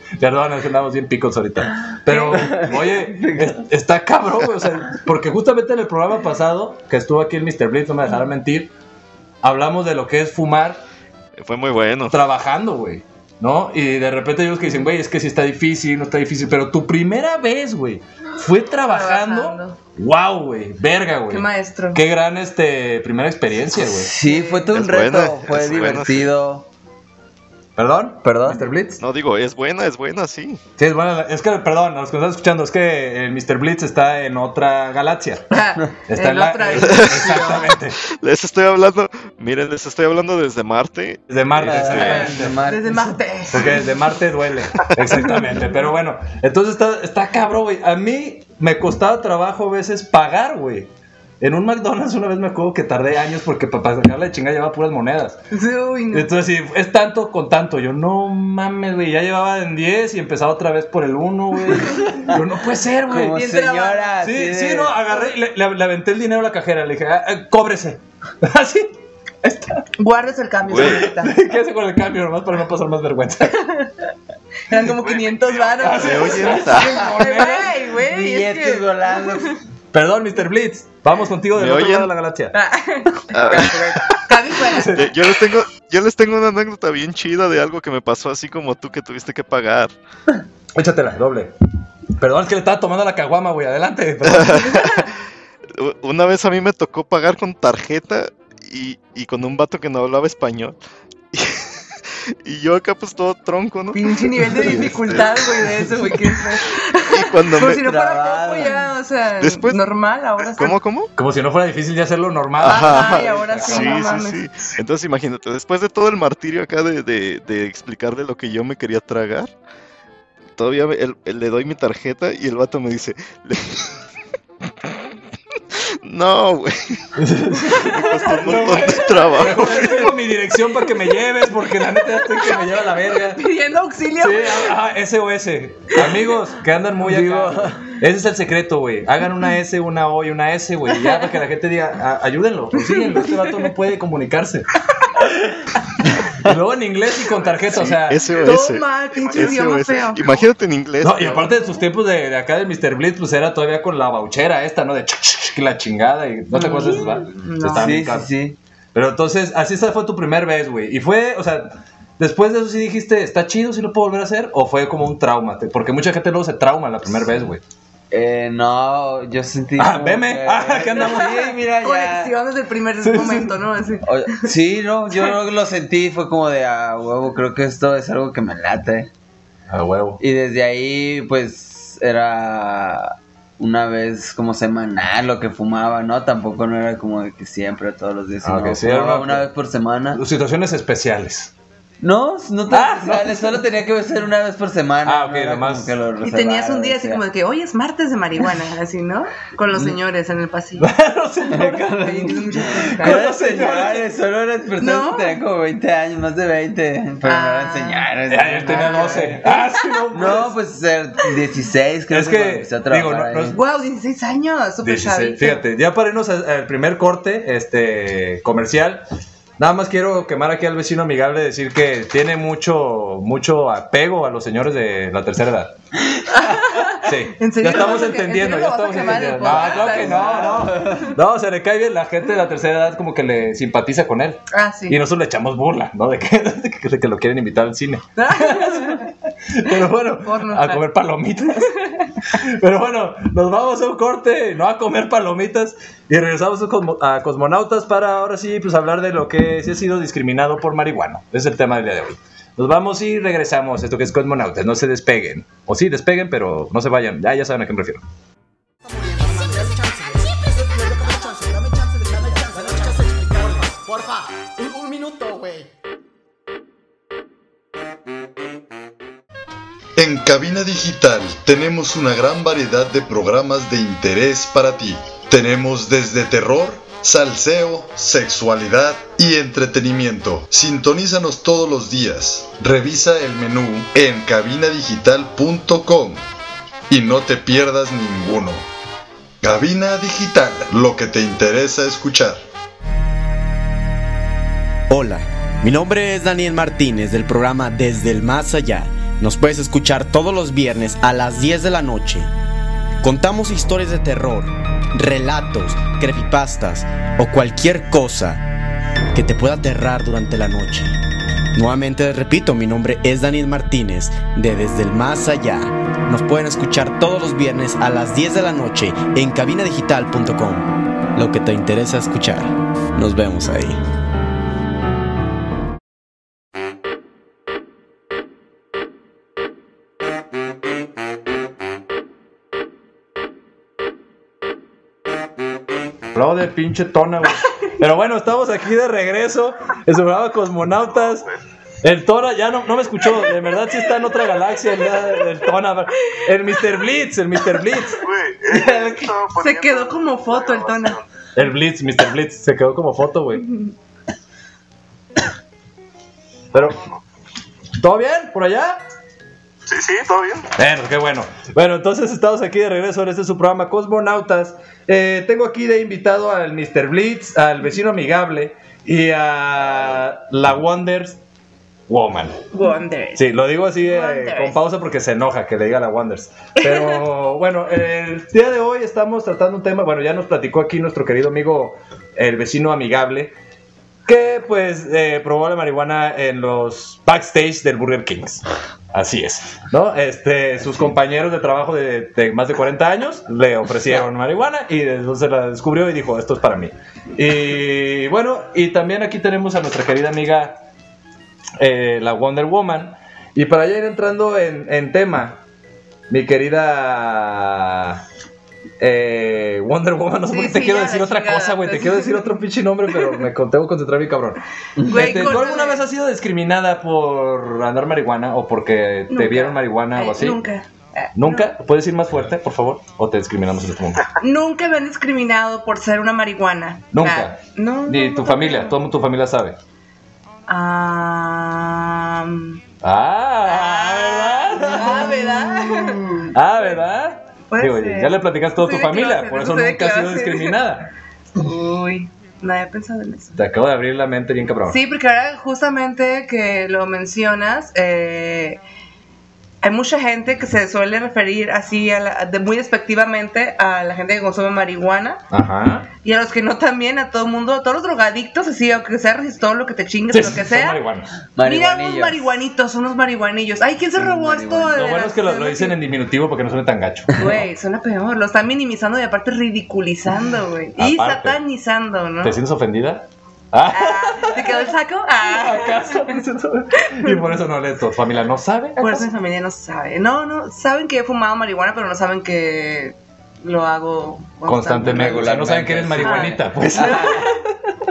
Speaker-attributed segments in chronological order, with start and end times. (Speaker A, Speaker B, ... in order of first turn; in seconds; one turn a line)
Speaker A: 0.2-8.7
Speaker B: 2.1-2.5
Speaker C: 2.2-3.6
Speaker A: 9.4-10.8
Speaker D: 11.4-12.2
Speaker A: 12.1-24.1
Speaker B: 18.9-19.8
Speaker B: 21.3-22.0
Speaker C: 23.7-26.7
Speaker B: 24.2-24.7
Speaker D: 24.7-26.3
Speaker A: 27.8-29.0
Speaker C: 28.2-28.6
Speaker D: 29.0-30.6
Speaker A: 30.8-35.5
Speaker B: 35.5-37.7
Speaker A: 36.1-38.0
Speaker D: 36.8-41.2
Speaker A: 41.3-42.6
Speaker C: 41.6-43.6
Speaker D: 41.8-42.3
Speaker B: 42.3-43.8
Speaker A: 43.5-50.9
Speaker A: 51.4-55.4
Speaker B: 55.5-56.3
Speaker A: 56.1-63.4
Speaker C: 61.8-62.4
Speaker C: 63.1-64.9
Speaker B: 63.3-64.1
Speaker A: 64.2-68.9
Speaker A: 69.4-69.8
Speaker B: 70.0-71.3
Speaker D: 70.7-71.0
Speaker A: 70.7-73.6
Speaker B: 73.5-73.9
Speaker B: 74.7-79.6
Speaker D: 75.0-77.1
Speaker A: 75.8-77.7
Speaker C: 77.3-79.6
Speaker A: 79.9-82.5
Speaker D: 81.5-82.1
Speaker B: 82.5-85.0
Speaker D: 83.3-89.9
Speaker A: 84.8-85.1
Speaker A: 90.8-91.5
Speaker A: 92.2-94.9
Speaker D: 94.2-95.1
Speaker D: 95.8-100.8
Speaker D: 101.3-101.7
Speaker D: 102.4-105.8
Speaker B: 103.9-110.8
Speaker D: 107.1-107.9
Speaker C: 107.8-108.9
Speaker D: 109.4-109.8
Speaker D: 110.5-111.1
Speaker A: 111.2-114.1
Speaker D: 112.6-119.5
Speaker B: 112.6-114.4
Speaker D: 120.6-123.8
Speaker D: 126.0-127.0
Speaker A: 127.2-133.4
Speaker B: 127.7-129.8
Speaker D: 127.9-130.1
Speaker B: 132.1-132.7
Speaker B: 133.3-134.7
Speaker A: 134.2-144.7
Speaker C: 137.0-137.8
Speaker B: 142.8-143.7
Speaker A: 146.4-148.2
Speaker D: 147.7-151.5
Speaker B: 148.4-150.4
Speaker A: 151.0-158.3
Speaker B: 156.5-157.9
Speaker C: 157.6-158.6
Speaker A: 158.9-167.6
Speaker C: 168.1-172.3
Speaker A: 169.8-171.6
Speaker B: 171.8-174.1
Speaker A: 173.0-173.6
Speaker C: 174.0-179.1
Speaker A: 179.7-180.2
Speaker C: 180.2-190.2
Speaker A: 188.4-189.5
Speaker A: 190.2-191.5
Speaker C: 192.0-197.2
Speaker A: 192.7-193.7
Speaker A: 195.1-195.9
Speaker B: 196.2-200.9
Speaker A: 200.8-204.1
Speaker C: 201.5-209.5
Speaker B: 202.0-203.3
Speaker B: 204.8-205.4
Speaker B: 207.2-208.1
Speaker A: 208.3-210.6
Speaker B: 208.7-209.6
Speaker C: 210.1-213.6
Speaker A: 212.1-213.6
Speaker B: 213.5-215.6
Speaker A: 214.8-219.1
Speaker A: 219.6-225.7
Speaker B: 226.3-231.1
Speaker A: 226.8-241.8
Speaker C: 229.4-231.1
Speaker B: 234.5-235.0
Speaker B: 238.2-239.1
Speaker B: 240.2-240.8
Speaker B: 241.7-242.1
Speaker A: 242.3-258.0
Speaker E: 258.8-265.7
Speaker F: 270.0-286.2
Speaker F: 286.9-288.6
Speaker F: 289.4-292.4
Speaker G: 294.9-302.3
Speaker G: 303.0-308.4
Speaker G: 309.1-311.0
Speaker G: 311.5-323.8
Speaker A: 336.1-341.3
Speaker A: 341.8-348.0
Speaker C: 348.5-349.1
Speaker B: 349.4-351.0
Speaker A: 351.4-353.5
Speaker A: 356.5-356.8
Speaker A: 357.8-358.8
Speaker A: 360.6-371.2
Speaker A: 371.9-372.4
Speaker B: 372.5-373.2
Speaker A: 373.2-383.3
Speaker B: 373.8-374.6
Speaker B: 376.6-376.9
Speaker A: 384.1-400.6
Speaker A: 401.6-405.4
Speaker A: 406.1-408.0
Speaker A: 408.8-420.4
Speaker B: 410.3-412.3
Speaker C: 414.8-415.3
Speaker B: 414.9-415.8
Speaker B: 419.1-421.5
Speaker A: 421.2-424.1
Speaker B: 424.2-428.7
Speaker A: 426.9-429.6
Speaker B: 430.5-432.6
Speaker A: 432.8-435.5
Speaker B: 433.4-436.8
Speaker A: 436.3-440.9
Speaker B: 437.5-440.6
Speaker B: 441.4-443.4
Speaker A: 443.4-444.8
Speaker B: 444.7-448.6
Speaker B: 449.6-455.2
Speaker A: 455.3-455.9
Speaker B: 456.0-460.8
Speaker A: 460.1-461.1
Speaker C: 461.4-462.2
Speaker B: 461.4-465.8
Speaker C: 464.0-464.8
Speaker A: 464.7-467.4
Speaker B: 467.2-472.4
Speaker A: 470.8-471.4
Speaker A: 472.2-474.7
Speaker B: 473.7-476.2
Speaker A: 475.2-479.1
Speaker B: 476.8-477.2
Speaker B: 478.8-485.3
Speaker A: 484.4-487.4
Speaker C: 484.8-487.2
Speaker B: 486.0-487.4